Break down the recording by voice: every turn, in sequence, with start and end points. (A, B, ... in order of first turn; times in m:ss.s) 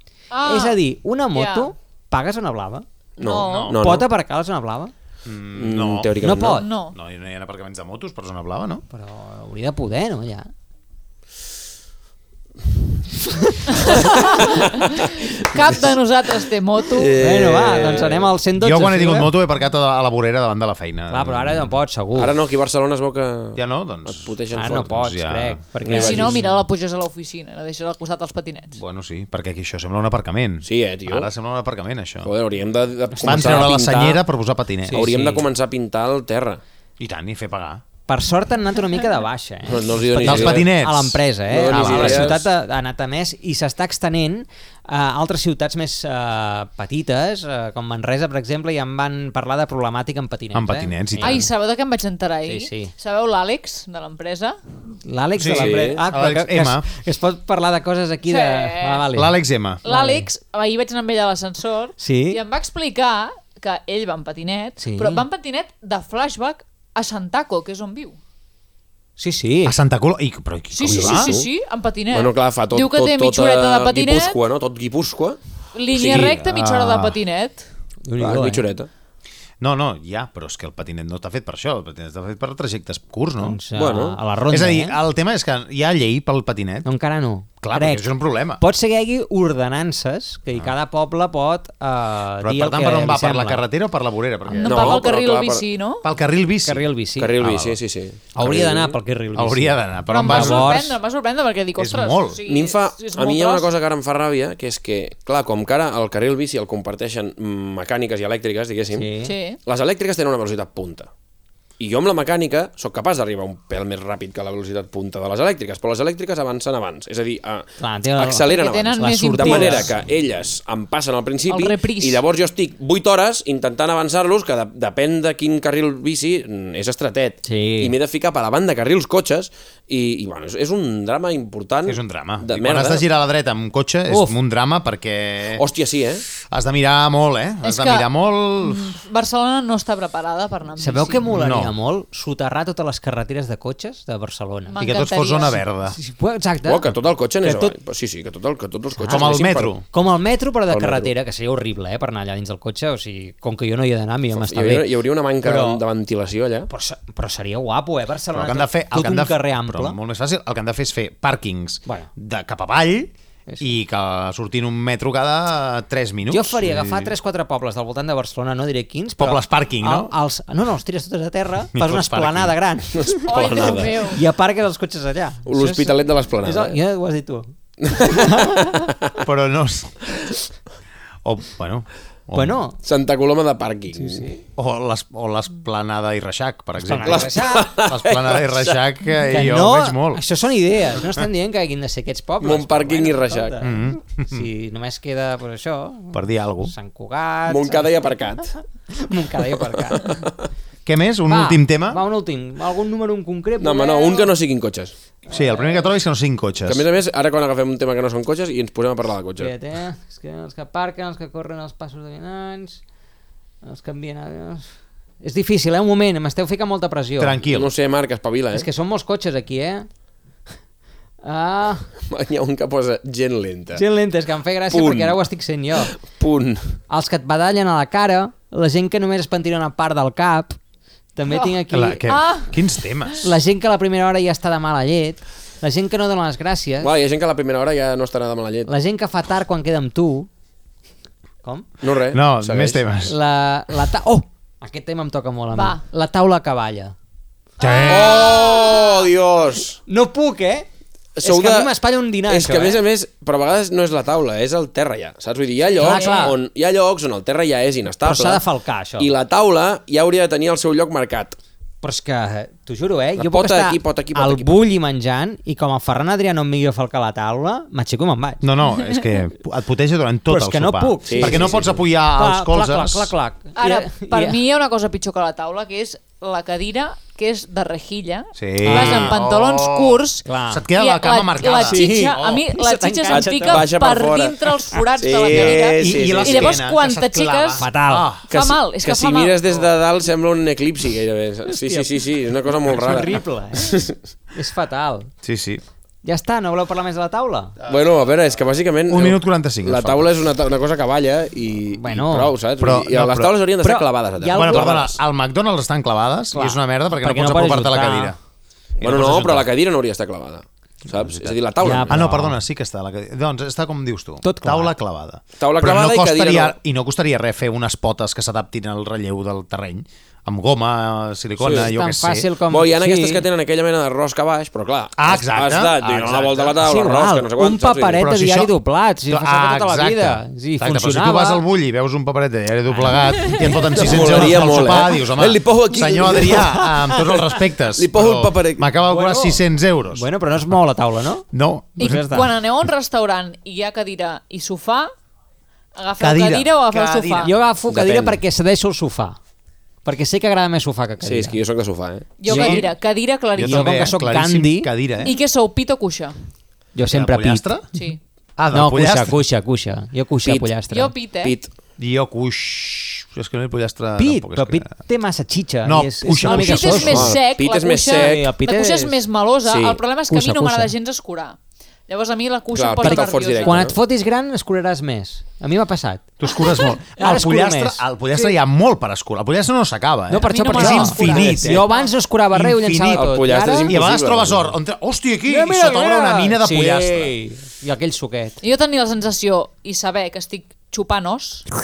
0:00.3-0:00.8 A
0:00.4-0:02.8 B
0:01.3-0:01.7 A
0:03.2-0:03.7 A
0:03.2-0:04.1 C
0:03.4-0:03.8 D
0:03.8-0:04.9 B
0:05.2-0:08.8 D
0:05.5-0:06.7 C
0:06.2-0:06.6 B
0:06.6-0:06.9 A
0:08.9-0:10.5 B
0:13.9-0:14.6 A
0:13.9-0:15.9 C
0:15.4-0:17.2 A
0:16.8-0:18.3 C
0:17.2-0:19.4 B
0:18.6-0:21.8 D
0:21.1-0:22.4 B
0:22.1-0:25.0 C
0:23.6-0:24.3 D
0:24.5-0:26.6 B
0:24.9-0:25.6 D
0:25.8-0:26.4 C
0:25.9-0:28.8 A
0:28.8-0:32.3 D
0:30.6-0:31.3 C
0:32.2-0:34.2 C
0:33.1-0:34.2 B
0:33.2-0:35.1 D
0:34.8-0:35.5 B
0:34.9-0:36.6 C
0:37.0-0:37.8 D
0:38.1-0:51.5 B
0:39.6-0:40.8 C
0:40.2-0:42.4 D
0:41.5-0:42.5 C
0:50.5-0:51.4 D
0:51.2-0:54.6 A
0:52.4-0:52.9 B
0:55.0-1:00.2 B
0:55.4-0:56.8 D
0:55.5-0:56.0 C
0:58.3-0:59.0 A
0:59.1-0:59.8 D
0:59.8-1:08.2 A
1:02.0-1:02.4 B
1:04.8-1:05.2 B
1:09.2-1:09.8 B
1:09.6-1:11.3 D
1:10.7-1:14.4 A
1:10.9-1:11.5 C
1:12.1-1:15.4 C
1:15.7-1:17.7 A
1:15.9-1:16.3 C
1:16.0-1:17.1 D
1:18.0-1:18.7 B
1:18.2-1:18.9 C
1:19.6-1:23.6 D
1:23.4-1:25.0 B
1:23.7-1:24.2 C
1:24.5-1:26.9 D
1:26.8-1:33.6 B
1:27.6-1:28.6 D
1:32.4-1:35.0 D
1:34.5-1:36.0 A
1:34.6-1:35.6 C
1:36.0-1:36.8 D
1:36.6-1:37.4 B
1:37.2-1:38.9 C
1:37.4-1:37.8 D
1:38.4-1:41.0 B
1:39.4-1:40.8 D
1:40.1-1:43.7 A
1:41.8-1:42.4 D
1:42.4-1:49.1 C
1:48.9-1:49.3 B
1:49.2-1:49.6 A
1:49.6-1:51.1 C
1:51.8-2:13.1 C
1:57.8-1:59.9 B
1:58.5-1:59.8 A
2:01.5-2:02.2 A
2:07.4-2:07.9 B
2:11.8-2:15.6 D
2:14.1-2:14.4 B
2:15.5-2:16.2 C
2:16.5-2:18.9 D
2:17.6-2:18.1 A
2:18.6-2:21.2 A
2:20.8-2:24.8 B
2:21.3-2:21.7 D
2:24.7-2:25.6 A
2:24.8-2:26.0 D
2:25.8-2:26.9 B
2:26.6-2:29.8 C
2:27.4-2:27.7 B
2:28.9-2:29.3 B
2:29.1-2:29.8 D
2:29.9-2:35.8 B
2:30.7-2:31.1 C
2:34.3-2:36.7 C
2:36.7-2:40.0 B
2:38.3-2:47.1 D
2:41.8-2:42.1 B
2:46.3-2:58.7 B
2:49.2-2:50.1 D
2:51.7-2:52.6 D
2:52.9-2:54.1 C
2:53.3-2:54.2 A
2:55.4-2:56.8 C
2:57.8-2:59.2 C
2:59.2-3:00.0 D
3:01.2-3:02.6 D
3:02.3-3:02.8 B
3:02.8-3:04.3 C
3:03.9-3:04.4 B
3:04.6-3:10.2 D
3:06.8-3:07.7 B
3:07.0-3:08.8 C
3:09.2-3:18.3 B
3:12.4-3:13.6 C
3:13.6-3:14.5 D
3:16.1-3:16.7 D
3:17.5-3:18.5 C
3:18.9-3:20.2 B
3:19.6-3:20.5 C
3:20.8-3:22.0 D
3:21.3-3:24.3 B
3:23.6-3:24.9 C
3:25.3-3:26.8 D
3:25.3-3:25.9 B
3:26.6-3:29.5 C
3:29.4-3:32.8 B
3:33.6-3:34.6 B
3:35.2-3:37.4 B
3:37.2-3:37.7 D
3:37.5-3:38.7 C
3:38.5-3:39.9 B
3:41.2-3:41.8 B
3:42.1-3:43.8 C
3:43.7-3:45.9 B
3:44.7-3:45.2 C
3:45.8-3:46.7 C
3:46.9-3:50.6 B
3:51.2-3:52.2 B
3:51.3-3:51.5 A
3:51.7-3:53.3 D
3:52.1-3:52.6 A
3:53.2-3:56.9 B
3:56.8-3:58.7 C
3:58.7-4:00.3 B
4:01.8-4:02.8 C
4:02.1-4:03.2 D
4:03.0-4:06.9 B
4:05.5-4:05.8 A
4:07.6-4:08.2 D
4:07.8-4:09.0 A
4:07.9-4:09.8 C
4:09.9-4:10.7 B
4:11.2-4:11.7 C
4:11.2-4:12.8 B
4:12.3-4:18.4 C
4:15.8-4:16.4 A
4:15.8-4:16.4 B
4:18.0-4:19.1 B
4:19.0-4:21.4 C
4:21.8-4:28.4 B
4:23.2-4:24.6 C
4:28.4-4:33.1 D
4:30.3-4:34.4 B
4:31.0-4:31.8 C
4:33.6-4:47.6 A
4:38.4-4:42.5 D
4:38.6-4:39.1 B
4:40.2-4:40.6 B
4:41.5-4:43.7 B
4:43.1-4:46.6 C
4:45.3-4:48.3 D
4:47.6-4:48.1 B
4:48.3-4:54.0 C
4:48.3-4:49.5 A
4:51.5-4:51.9 B
4:52.5-4:55.1 B
4:55.2-4:55.6 D
4:56.0-4:57.6 B
4:57.7-5:05.0 C
4:58.9-5:00.2 D
5:01.7-5:02.3 B
5:02.6-5:03.3 D
5:03.6-5:04.9 B
5:04.3-5:08.2 D
5:06.3-5:08.2 B
5:08.8-5:12.1 C
5:08.8-5:09.5 D
5:11.2-5:22.3 D
5:11.6-5:12.4 B
5:14.2-5:14.7 B
5:15.4-5:16.6 C
5:21.4-5:21.7 C
5:21.4-5:23.2 B
5:22.5-5:28.0 C
5:25.0-5:26.5 D
5:26.6-5:31.4 B
5:27.9-5:28.5 D
5:29.1-5:40.1 D
5:32.7-5:34.7 B
5:33.6-5:36.6 C
5:36.3-5:37.2 B
5:37.2-5:38.7 C
5:38.8-5:41.2 B
5:41.3-5:42.0 D
5:41.8-5:44.9 A
5:41.8-5:42.3 B
5:45.8-5:47.3 A
5:46.0-5:47.3 D
5:47.2-5:49.2 B
5:47.7-5:48.2 C
5:49.8-5:51.4 B
5:51.0-5:52.2 C
5:52.2-5:53.8 A
5:52.2-5:52.7 B
5:52.3-5:52.7 D
5:53.4-5:55.1 D
5:53.4-5:54.7 B
5:55.0-5:56.2 A
5:56.7-5:57.6 B
5:56.9-5:57.6 D
5:57.7-5:58.0 A
5:58.4-5:59.2 D
5:58.5-6:00.9 B
6:00.2-6:00.6 C
6:00.7-6:01.3 A
6:01.2-6:01.5 C
6:01.8-6:04.7 D
6:04.0-6:07.2 B
6:05.6-6:07.1 D
6:06.2-6:11.4 A
6:06.7-6:08.3 C
6:07.9-6:09.0 B
6:09.4-6:09.8 C
6:10.1-6:10.7 B
6:11.9-6:13.7 A
6:12.5-6:13.8 C
6:12.8-6:18.3 B
6:16.2-6:21.6 D
6:20.1-6:23.8 B
6:20.3-6:21.9 A
6:22.3-6:23.1 D
6:22.9-6:24.5 C
6:23.6-6:27.2 D
6:25.2-6:28.4 B
6:28.4-6:31.4 A